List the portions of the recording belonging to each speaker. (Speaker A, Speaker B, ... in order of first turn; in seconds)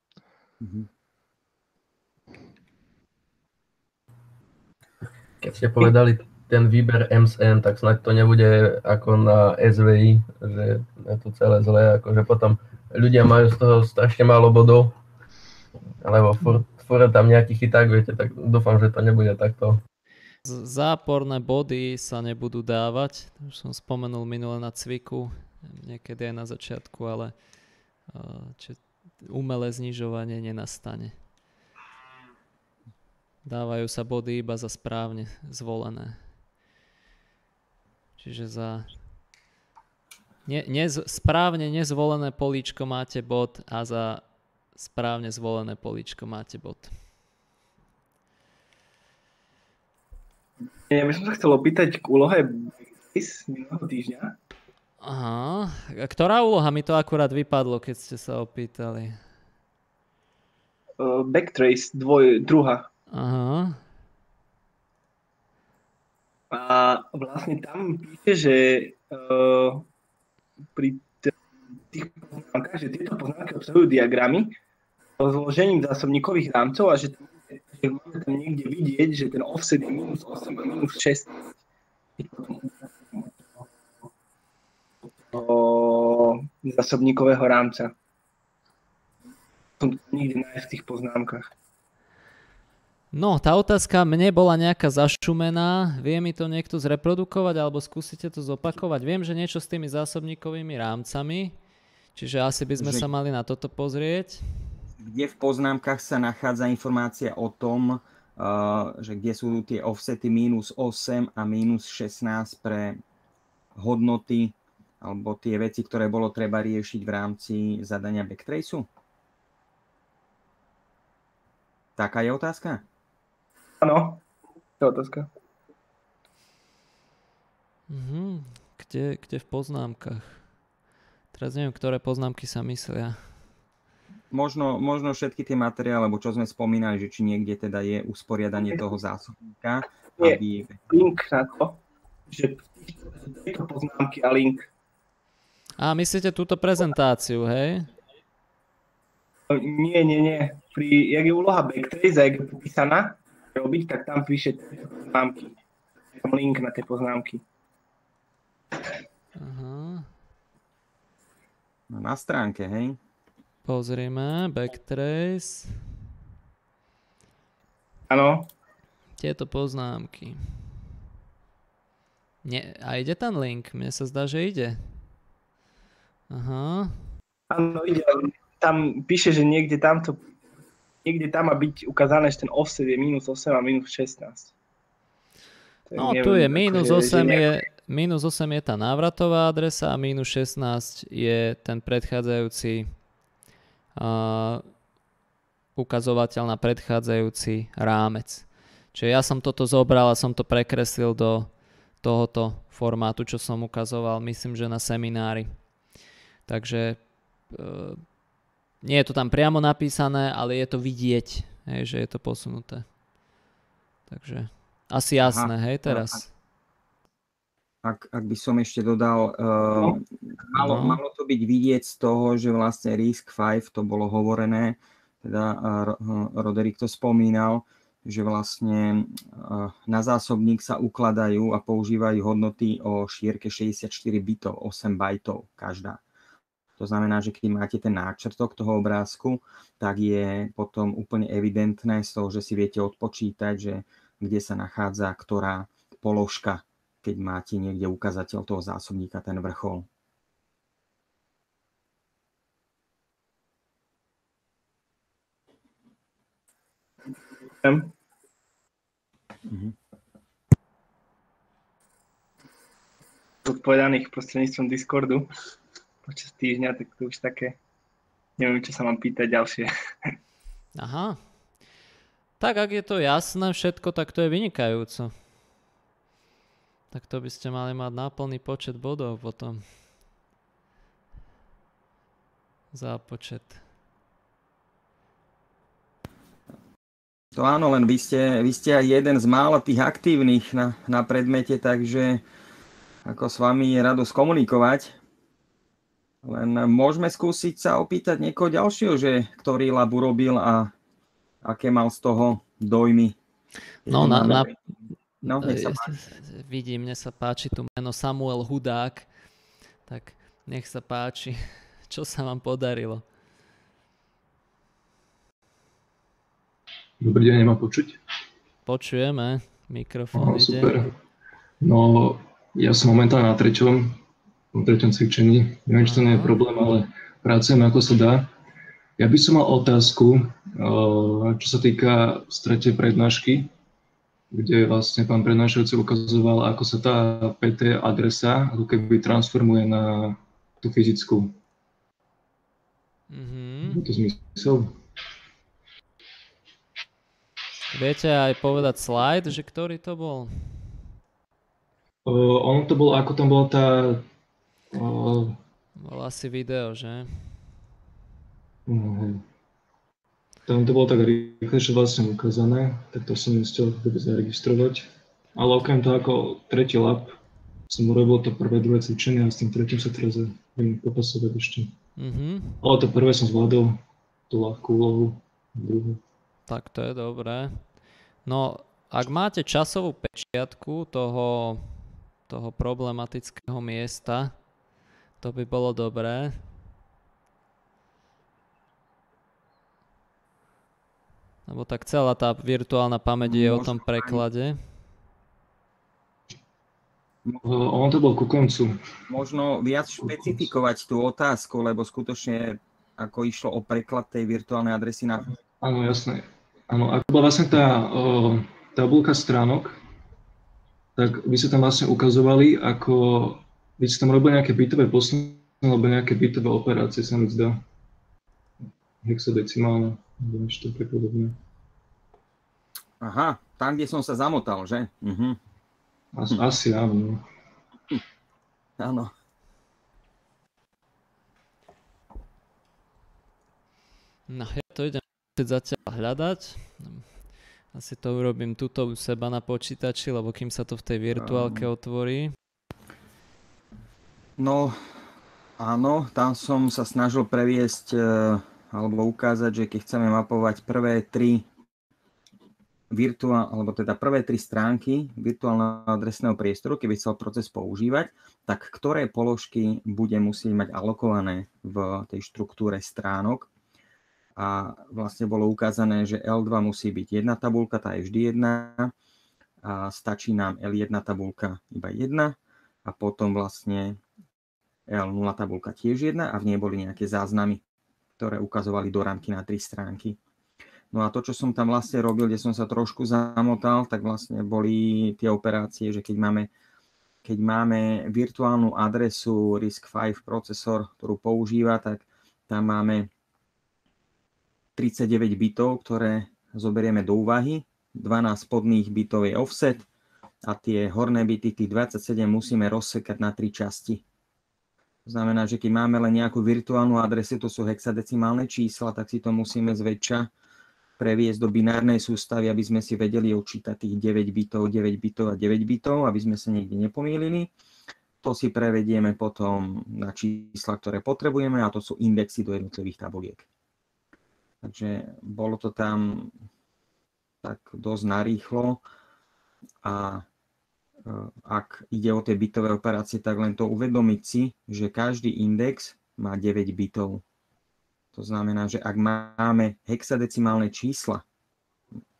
Speaker A: 0.6-0.9, 102.8-103.1, 105.0-113.0, 113.8-118.9, 122.0-122.8, 134.3-140.8, 161.9-163.0, 215.2-216.2, 217.8-236.0, 236.8-249.9, 259.5-259.8, 287.4-292.2, 293.1-295.0, 296.2-300.7, 301.4-303.2, 303.9-304.5, 305.3-305.9, 393.2-394.2, 399.1-405.4, 423.0-425.4, 428.8-429.1, 441.1-441.7, 444.4-444.8, 445.6-451.5, 452.9-463.5, 464.4-468.9, 469.6-474.0, 474.9-477.6, 478.2-480.2, 480.9-486.5, 487.2-493.1, 494.8-499.9, 500.4-504.0, 505.1-510.3, 511.0-517.5, 518.2-523.5, 524.6-526.3, 527.4-528.8, 529.8-530.2, 531.0-537.2, 538.1-541.2
Speaker B: 5.4-15.0, 16.0-19.8
Speaker C: 20.4-27.3, 28.1-31.1, 33.5-36.2, 38.2-38.9, 40.5-44.2, 44.8-46.9, 55.0-59.2, 63.1-63.8, 93.1-101.6, 102.2-104.4, 127.9-130.4, 131.3-133.2, 145.8-147.9, 159.4-160.1, 163.7-165.8, 169.2-170.4, 172.4-175.0, 176.3-176.9, 186.0-192.9, 194.0-194.6, 195.8-205.5, 206.5-208.0, 208.8-212.8, 214.1-216.3, 220.6-221.0, 270.8-271.2, 272.4-275.1, 276.9-279.6, 282.7-283.6, 303.9-304.5, 305.2-309.1, 309.9-313.1, 318.7-320.8, 325.8-326.4, 343.1-343.8, 347.7-350.6, 355.8-357.1, 372.0-372.6, 376.5-377.6, 378.2-384.3, 385.2-386.4, 391.5-394.6, 434.3-437.1, 437.7-442.3
Speaker D: 50.9-54.4, 61.0-62.9, 66.5-69.9, 70.8-71.3, 71.9-74.5, 75.2-81.4, 82.2-83.3, 85.3-87.9, 89.8-91.5, 123.8-124.2, 124.8-125.3, 140.2-144.7, 149.5-155.6, 156.2-157.4, 168.1-168.5, 177.5-180.2, 181.1-184.5, 185.9-187.5, 257.6-257.9, 263.4-265.3, 266.0-267.6, 268.4-270.1
Speaker E: 317.0-318.0, 320.1-321.0, 321.6-324.0, 324.5-328.3, 329.0-333.5, 334.3-341.4, 343.7-344.8, 352.1-354.1, 354.7-355.4, 358.7-359.2, 360.5-367.2, 367.7-371.8, 372.6-376.0, 397.4-398.8, 405.6-409.8, 411.0-417.6, 419.0-421.4, 426.1-427.2